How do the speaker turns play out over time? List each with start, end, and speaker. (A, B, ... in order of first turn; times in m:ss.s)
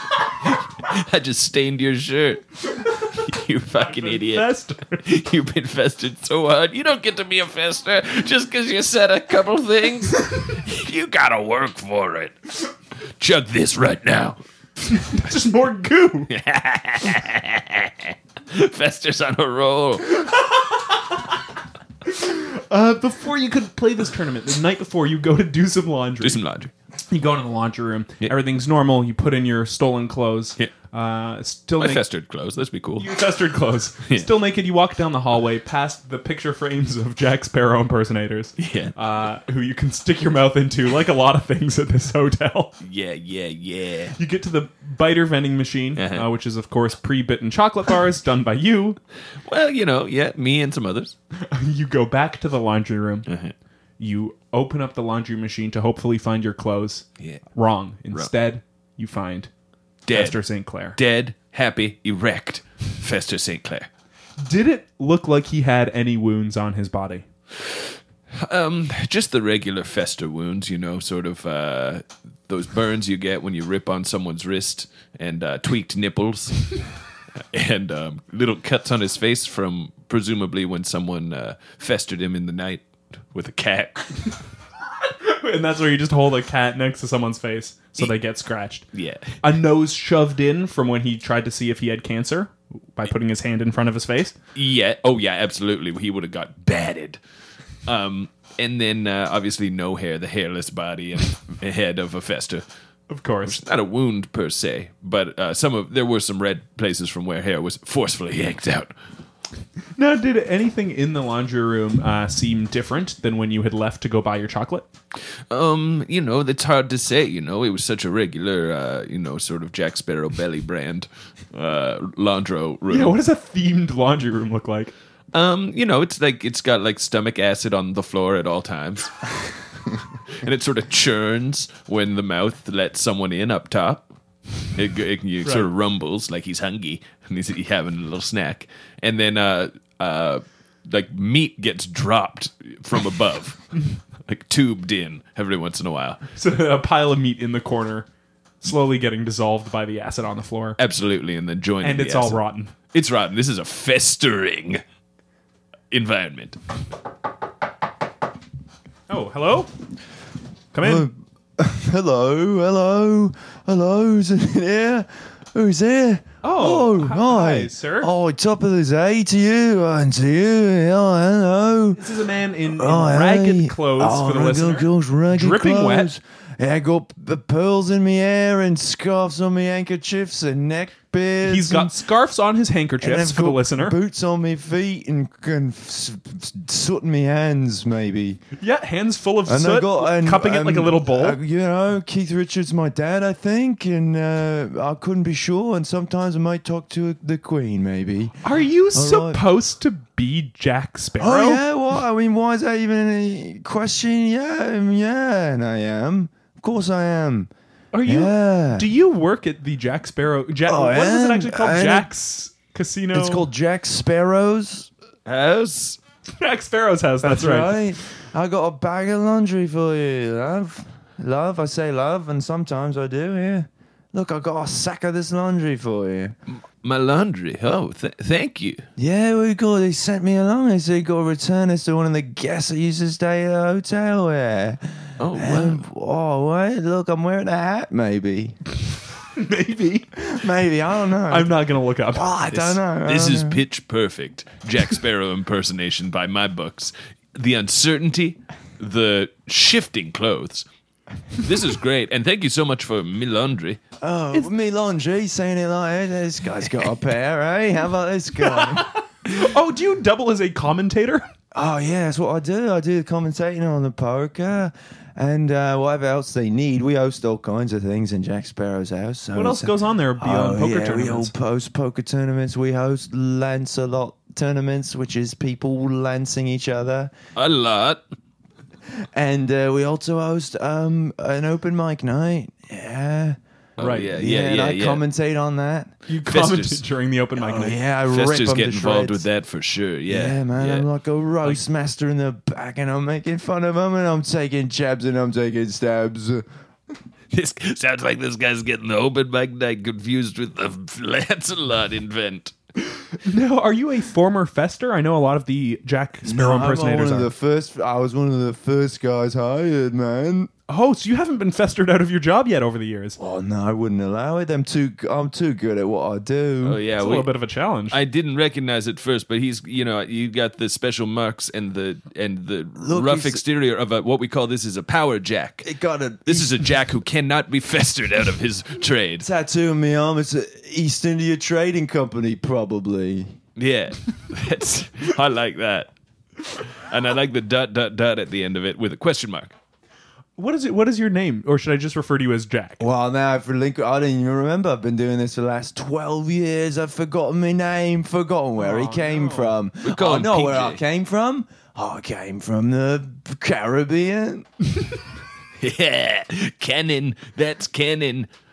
0:00.2-0:12.6 A
0:03.8-0:05.1 B
0:13.2-0:14.4 A
0:15.0-0:16.3 B
0:16.3-0:20.3 A
0:22.0-0:26.4 B
0:26.2-0:26.7 A
0:27.1-0:32.0 B
0:31.8-0:33.1 A
0:33.0-0:42.8 B
0:38.6-0:39.0 A
0:42.8-0:44.2 A
0:44.2-0:49.0 B
0:46.0-0:46.2 A
0:49.4-0:51.2 A
0:51.4-0:53.3 B
0:53.3-0:53.5 A
0:54.0-0:59.5 B
1:00.1-1:00.4 A
1:00.1-1:01.0 B
1:00.9-1:03.9 A
1:04.4-1:07.2 B
1:08.3-1:16.8 A
1:17.5-1:24.4 A
1:25.2-1:28.8 B
1:28.9-1:29.4 A
1:29.4-1:34.3 B
1:34.5-1:37.2 A
1:37.8-1:42.6 A
1:43.1-1:43.6 B
1:43.4-1:48.9 A
1:50.0-1:54.9 B
1:55.5-2:03.2 A
2:02.9-2:04.9 B
2:05.3-2:14.1 A
2:14.7-2:26.2 A
2:26.4-2:28.1 B
2:28.6-2:30.8 B
2:30.8-2:34.8 A
2:31.8-2:32.7 B
2:35.9-2:36.6 A
2:39.1-2:39.7 B
2:40.7-2:41.1 B
2:40.8-2:52.0 C
2:46.4-2:48.1 B
2:51.9-2:56.1 B
2:52.6-3:02.0 C
3:01.4-3:04.0 B
3:03.0-3:08.4 C
3:08.6-3:11.4 B
3:09.4-3:18.4 C
3:18.4-3:21.6 B
3:18.9-3:19.4 C
3:21.2-3:27.5 C
3:27.9-3:33.5 B
3:28.0-3:28.9 C
3:30.6-3:32.1 C
3:33.1-3:34.9 C
3:35.2-3:36.0 A
3:36.4-3:37.9 B
3:37.2-3:46.4 C
3:46.5-3:48.8 A
3:49.0-3:58.6 C
3:55.2-3:55.8 A
3:59.3-4:00.2 B
4:00.2-4:01.5 C
4:01.3-4:02.6 B
4:02.1-4:03.6 C
4:02.5-4:10.6 A
4:11.3-4:13.8 A
4:14.0-4:18.9 C
4:18.5-4:21.3 B
4:21.5-4:37.1 C
4:29.3-4:31.3 B
4:37.4-4:38.0 A
4:39.1-4:43.4 C
4:43.8-4:45.0 A
4:43.8-4:44.1 B
4:44.0-4:45.9 C
4:46.1-4:47.8 B
4:46.2-4:46.8 A
4:47.4-4:49.2 C
4:48.1-4:50.9 A
4:50.1-4:56.4 C
4:57.3-5:02.5 A
5:03.1-5:07.3 B
5:06.2-5:10.5 C
5:10.7-5:13.2 B
5:13.2-5:16.8 C
5:16.6-5:17.3 A
5:17.0-5:18.0 B
5:17.9-5:25.7 A
5:22.8-5:23.4 C
5:25.6-5:26.7 C
5:26.2-5:29.3 A
5:29.2-5:33.4 C
5:33.6-5:35.9 A
5:36.5-5:39.5 A
5:40.4-5:42.8 B
5:42.8-5:54.5 C
5:48.6-5:49.6 B
5:49.8-5:50.8 A
5:55.6-5:58.3 A